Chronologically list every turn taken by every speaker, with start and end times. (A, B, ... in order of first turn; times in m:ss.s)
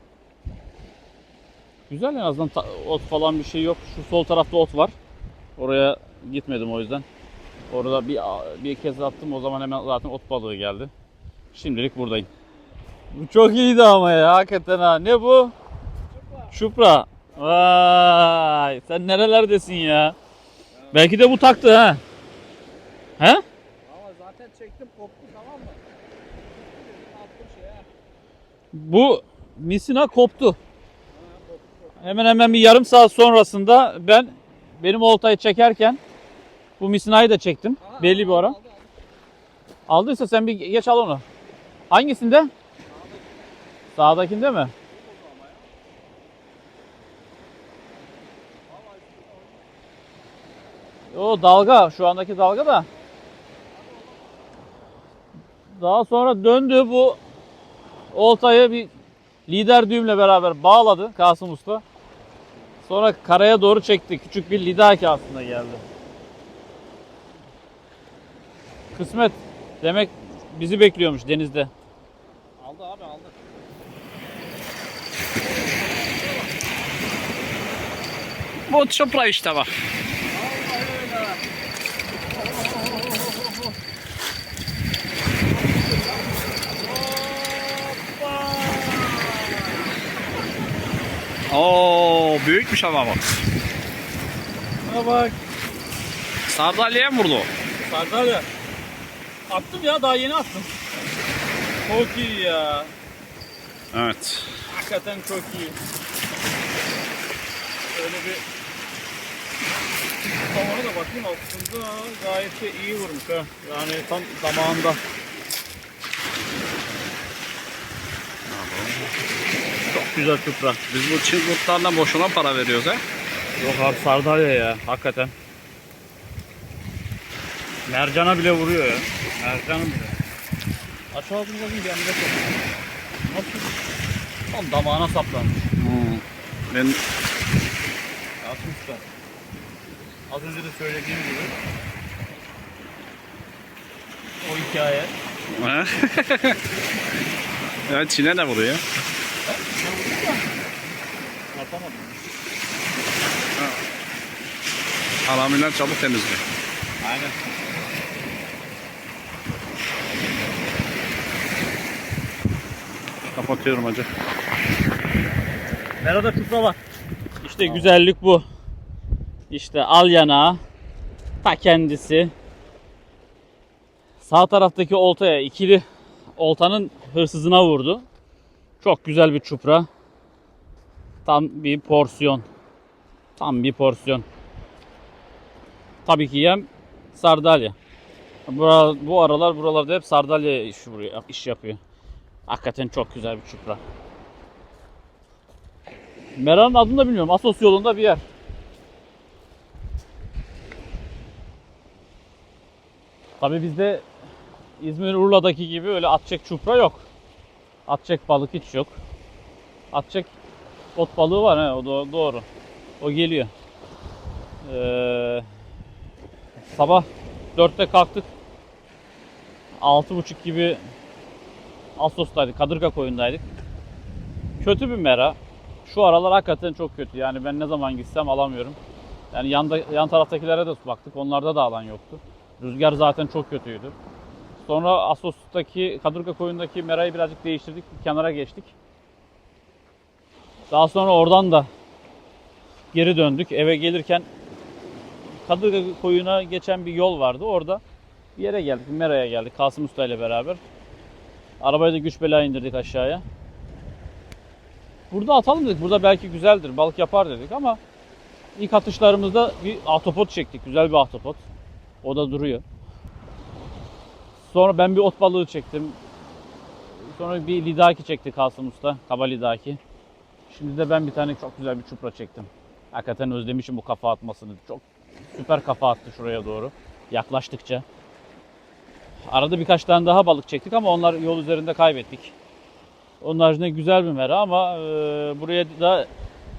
0:01.9-0:04.9 A
0:05.6-0:07.0 A
0:07.7-0:10.9 A
0:11.5-0:12.3 A
0:13.1-0:15.5 A
0:16.5-0:20.2 A
0:20.9-0:22.0 A
0:23.2-0:23.4 A
0:23.8-0:25.9 B
0:26.6-0:27.9 B
0:28.7-0:30.6 A
0:31.1-0:32.1 B
0:32.0-0:36.0 A
0:36.8-0:38.6 A
0:37.8-0:38.9 B
0:39.9-0:41.2 A
0:41.9-0:42.5 A
0:42.9-0:43.5 B
0:44.0-0:44.7 A
0:44.8-0:45.7 B
0:48.7-0:49.6 B
0:51.1-0:52.9 A
0:55.7-0:57.2 A
0:58.1-0:58.9 A
0:59.5-1:01.8 A
1:02.8-1:05.8 A
1:08.9-1:11.7 A
1:12.6-1:13.5 B
1:15.8-1:16.4 B
1:18.6-1:19.8 C
1:20.3-1:21.4 B
1:22.4-1:23.6 B
1:27.2-1:29.2 A
1:31.5-1:33.2 C
1:34.8-1:35.4 A
1:36.5-1:37.5 C
1:37.8-1:38.5 A
1:39.5-1:40.7 A
1:41.8-1:42.9 A
1:43.9-1:44.6 C
1:44.7-1:45.8 A
1:47.9-1:48.4 A
1:50.4-1:55.0 A
1:58.6-1:59.1 C
1:59.8-2:00.8 A
2:00.9-2:03.0 C
2:03.6-2:05.3 A
2:07.9-2:10.2 A
2:11.1-2:12.7 A
2:13.2-2:13.7 A
2:14.5-2:15.8 A
2:15.8-2:17.0 C
2:18.4-2:19.0 A
2:20.3-2:21.6 A
2:24.4-2:25.1 A
2:25.5-2:26.6 C
2:27.9-2:28.8 C
2:29.5-2:30.4 A
2:31.5-2:32.2 A
2:35.2-2:36.4 C
2:37.0-2:37.4 A
2:43.4-2:44.0 A
2:43.8-2:44.1 C
2:46.0-2:46.8 A
2:47.4-2:48.4 A
2:49.5-2:50.6 A
2:51.4-2:52.3 A
2:54.2-2:55.8 A
2:56.4-2:58.0 A
2:58.8-2:59.9 A
3:01.2-3:02.5 A
3:03.4-3:04.2 A
3:06.0-3:07.8 A
3:08.5-3:11.8 A
3:12.5-3:13.8 A
3:16.4-3:18.2 A
3:23.4-3:24.1 A
3:24.8-3:27.1 A
3:27.9-3:29.0 A
3:29.9-3:30.3 A
3:31.0-3:32.5 A
3:33.0-3:33.5 A
3:34.6-3:35.4 A
3:36.6-3:38.3 A
3:39.8-3:40.8 A
3:42.0-3:43.4 A
3:44.6-3:48.8 A
3:49.3-3:54.0 A
3:54.6-3:58.7 A
4:00.7-4:01.7 A
4:02.9-4:04.3 A
4:05.4-4:07.8 A
4:08.4-4:10.6 A
4:11.6-4:13.2 A
4:15.1-4:17.8 A
4:18.6-4:21.4 A
4:22.0-4:22.6 A
4:24.4-4:26.0 A
4:27.0-4:29.8 A
4:30.5-4:37.8 A
4:39.3-4:42.4 A
4:43.2-4:46.1 A